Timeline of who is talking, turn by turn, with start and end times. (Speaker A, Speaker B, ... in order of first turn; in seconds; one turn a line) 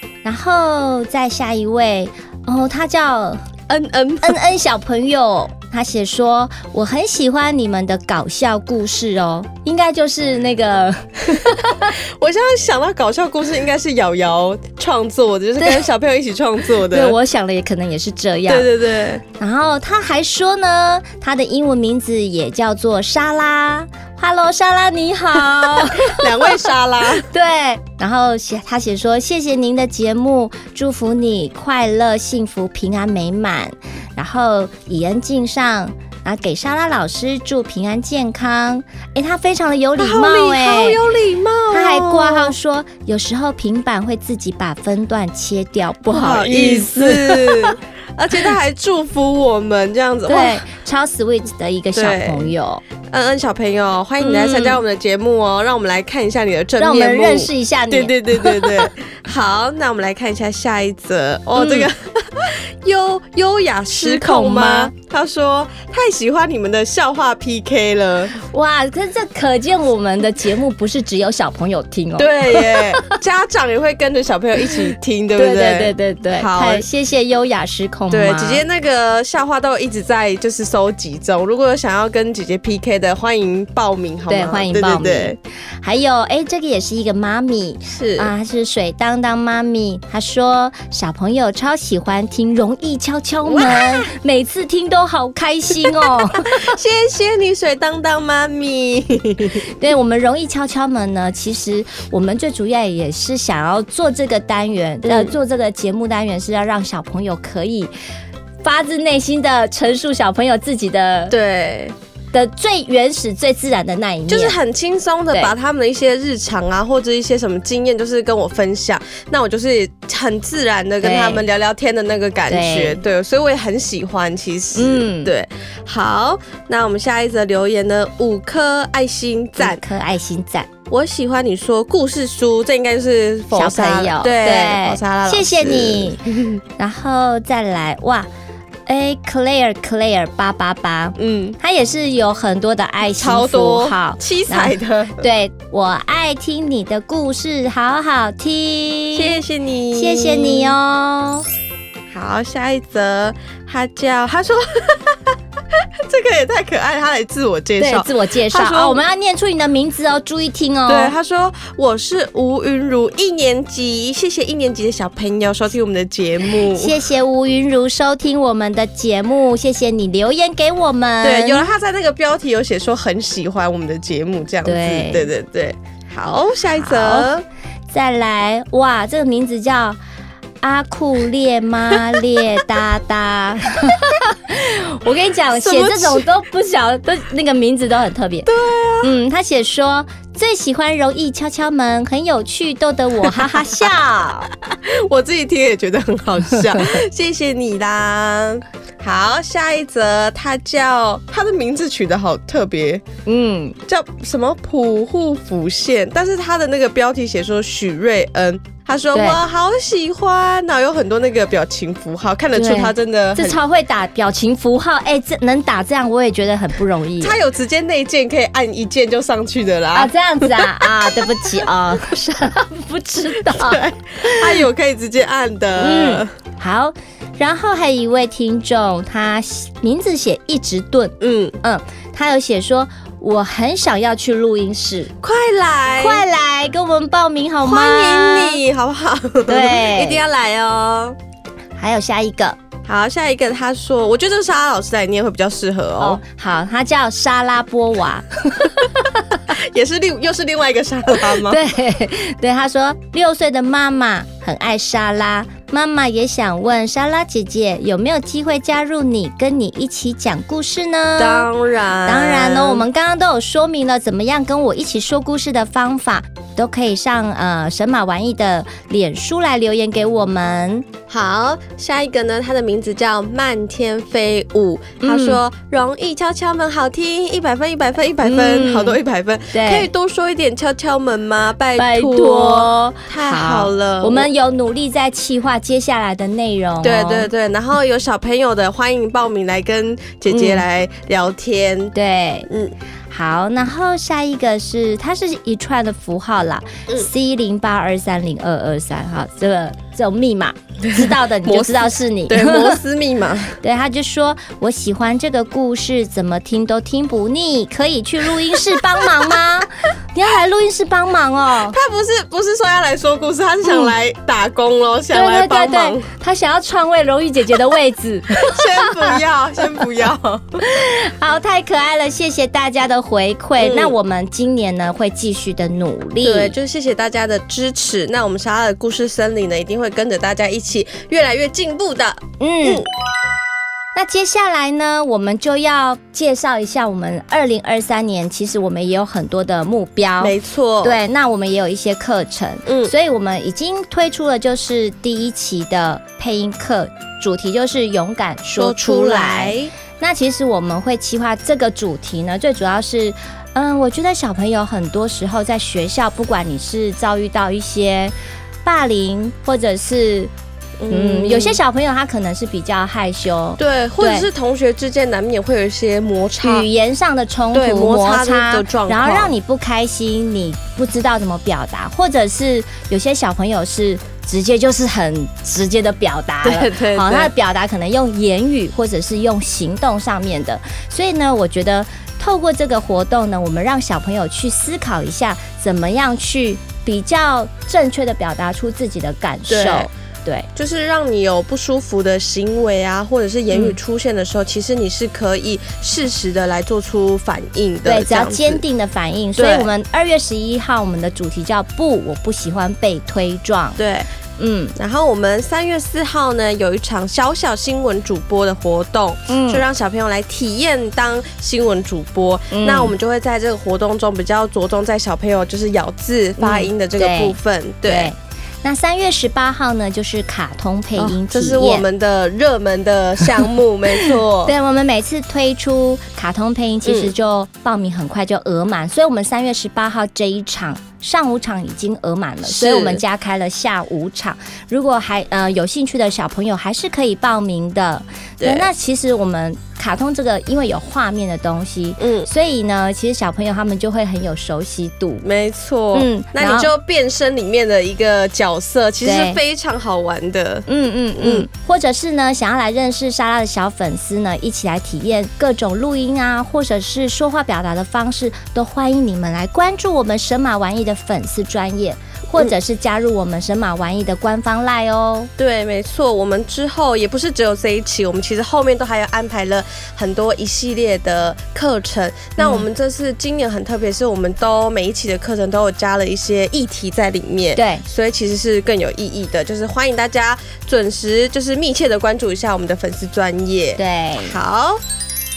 Speaker A: 0.2-3.4
Speaker B: 3.7-4.4
Speaker A: 4.2-12.0
Speaker B: 12.2-17.2
Speaker A: 15.6-15.9
Speaker A: 16.8-18.7
Speaker B: 18.5-19.2
Speaker A: 19.4-26.5
Speaker B: 25.8-27.3
Speaker A: 27.2-41.0
Speaker B: 40.0-42.5
Speaker A: 41.7-47.8
Speaker B: 46.1-50.6
Speaker A: 50.3-52.8
Speaker B: 52.0-52.5
Speaker B: 53.1-68.3
Speaker A: 54.2-54.8
Speaker A: 56.8-58.9
Speaker A: 61.6-61.9
Speaker A: 63.9-64.9
Speaker A: 68.4-73.1
Speaker B: 72.2-76.9
Speaker A: 75.4-78.6
Speaker B: 78.1-85.4
Speaker A: 84.3-96.6
Speaker B: 87.9-88.3
Speaker B: 93.5-94.1
Speaker B: 96.1-99.6
Speaker A: 99.8-107.9
Speaker B: 105.0-105.4
Speaker A: 108.6-111.3
Speaker B: 111.3-112.0
Speaker A: 112.3-114.6
Speaker B: 114.3-129.8
Speaker A: 121.0-121.4
Speaker A: 122.5-123.0
Speaker A: 124.8-125.3
Speaker A: 129.6-130.7
Speaker B: 130.9-136.6
Speaker A: 133.5-136.2
Speaker A: 136.8-138.3
Speaker A: 138.9-149.4
Speaker B: 141.2-141.6
Speaker B: 143.1-145.3
Speaker B: 149.1-150.8
Speaker A: 149.9-151.4
Speaker B: 152.1-159.0
Speaker A: 157.8-161.2
Speaker B: 160.9-167.0
Speaker A: 166.6-171.7
Speaker B: 171.2-177.4
Speaker A: 174.6-175.3
Speaker A: 176.8-177.3
Speaker A: 177.9-180.0
Speaker A: 180.6-188.5
Speaker B: 185.5-186.3
Speaker B: 188.4-189.1
Speaker A: 189.0-194.5
Speaker B: 194.7-203.0
Speaker A: 203.3-203.8
Speaker B: 203.9-213.6
Speaker A: 209.1-209.4
Speaker A: 212.5-217.4
Speaker B: 217.2-221.2
Speaker A: 219.9-224.6
Speaker B: 223.3-226.3
Speaker A: 225.8-235.1
Speaker B: 231.2-231.6
Speaker B: 235.2-236.2
Speaker A: 236.0-238.6
Speaker B: 237.6-241.2
Speaker A: 239.5-240.2
Speaker A: 241.8-242.6
Speaker B: 242.9-246.2
Speaker A: 246.0-249.4
Speaker B: 249.5-251.6
Speaker A: 251.3-261.5
Speaker B: 261.2-262.9
Speaker A: 262.1-270.9
Speaker B: 271.1-284.3
Speaker A: 275.0-275.4
Speaker A: 278.2-279.0
Speaker A: 279.5-279.9
Speaker A: 281.8-287.3
Speaker B: 286.8-291.9
Speaker A: 290.3-290.6
Speaker A: 291.9-292.5
Speaker B: 292.5-292.7
Speaker A: 293.1-302.8
Speaker B: 300.9-303.6
Speaker A: 303.6-311.8
Speaker B: 311.7-316.1
Speaker A: 313.6-313.9
Speaker A: 315.1-319.2
Speaker B: 318.4-320.6
Speaker A: 320.6-326.5
Speaker B: 323.6-323.9
Speaker B: 326.2-332.9
Speaker A: 332.4-332.8
Speaker A: 333.9-358.1
Speaker B: 340.2-341.0
Speaker B: 342.7-342.9
Speaker B: 348.6-349.7
Speaker A: 358.6-360.3
Speaker B: 360.8-361.6
Speaker A: 360.9-364.3
Speaker B: 363.6-366.7
Speaker A: 366.4-390.5
Speaker B: 367.5-369.3
Speaker B: 376.4-377.3
Speaker B: 389.5-389.9
Speaker B: 390.6-398.6
Speaker A: 393.5-393.8
Speaker A: 397.9-403.8
Speaker B: 399.4-399.7
Speaker B: 403.8-404.1
Speaker A: 404.4-404.8
Speaker B: 404.8-418.1
Speaker A: 409.3-409.6
Speaker A: 412.5-412.9
Speaker A: 416.4-421.9
Speaker B: 421.0-424.5
Speaker A: 424.0-445.2
Speaker B: 426.9-427.1
Speaker B: 432.4-433.0
Speaker B: 438.4-438.7
Speaker B: 442.0-442.3
Speaker B: 445.2-451.5
Speaker A: 445.9-446.7
Speaker A: 449.0-449.4
Speaker A: 450.7-465.3
Speaker B: 465.4-484.8
Speaker A: 472.4-472.7
Speaker A: 477.6-477.8
Speaker A: 483.8-484.4